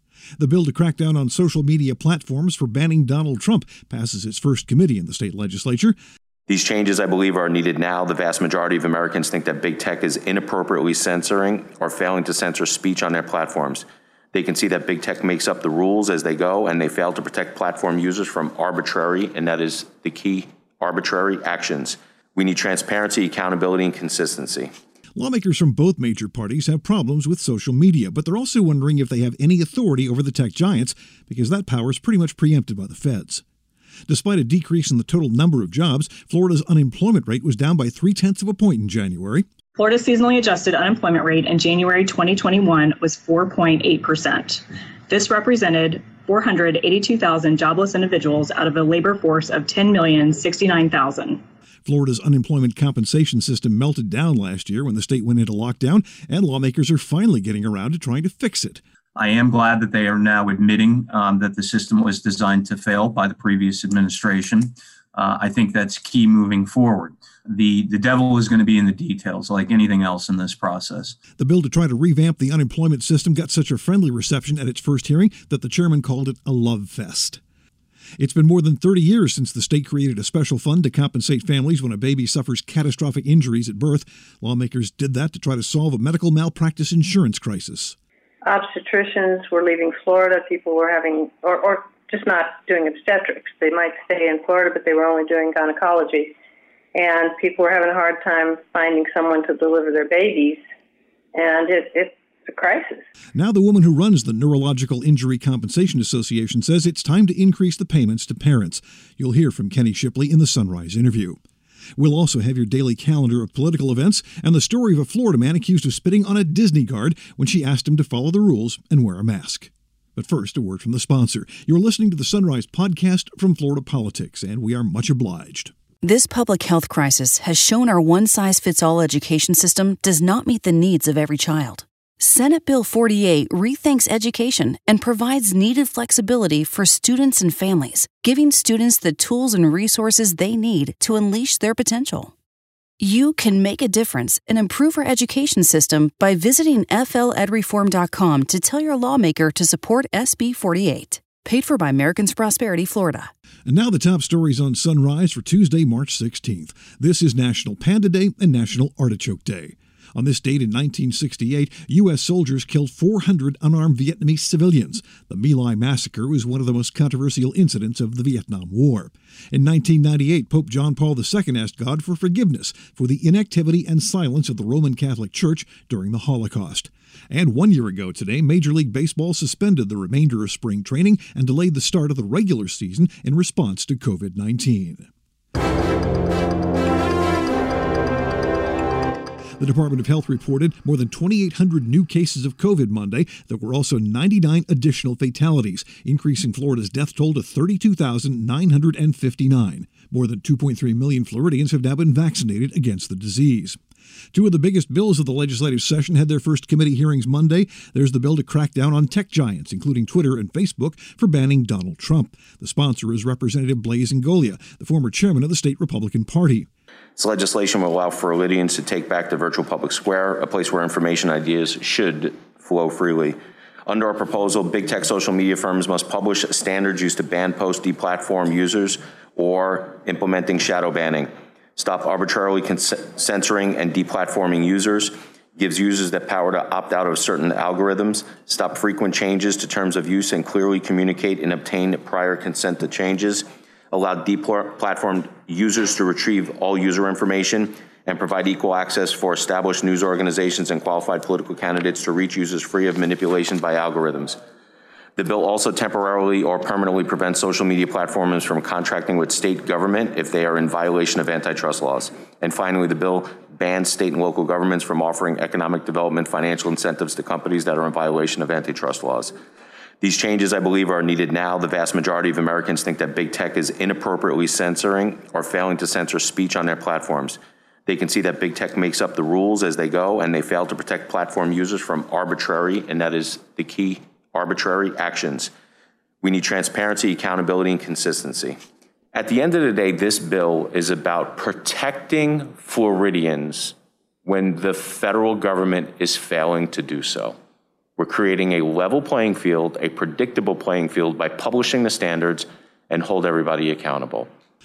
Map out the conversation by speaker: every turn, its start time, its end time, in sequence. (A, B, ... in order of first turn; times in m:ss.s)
0:00.4-0:05.9 A
0:06.5-0:24.7 B
0:25.2-0:33.4 A
0:34.1-0:39.5 A
0:39.8-0:51.4 C
0:51.8-0:58.8 A
0:59.2-1:11.2 D
1:11.4-1:17.4 A
1:18.2-1:28.0 A
1:28.4-1:36.3 E
1:36.9-1:40.6 E
1:41.3-1:43.0 E
1:43.3-1:51.4 A
1:52.0-2:05.7 A
2:06.0-2:22.3 F
2:23.0-2:33.3 F
2:33.6-3:05.1 A
3:09.6-3:23.8 A
3:24.3-3:36.7 A
3:37.2-4:14.4 B
4:15.2-4:29.3 B
4:30.0-4:45.5 B
4:46.2-4:48.6 B
4:49.1-4:57.4 B
4:58.0-5:04.3 B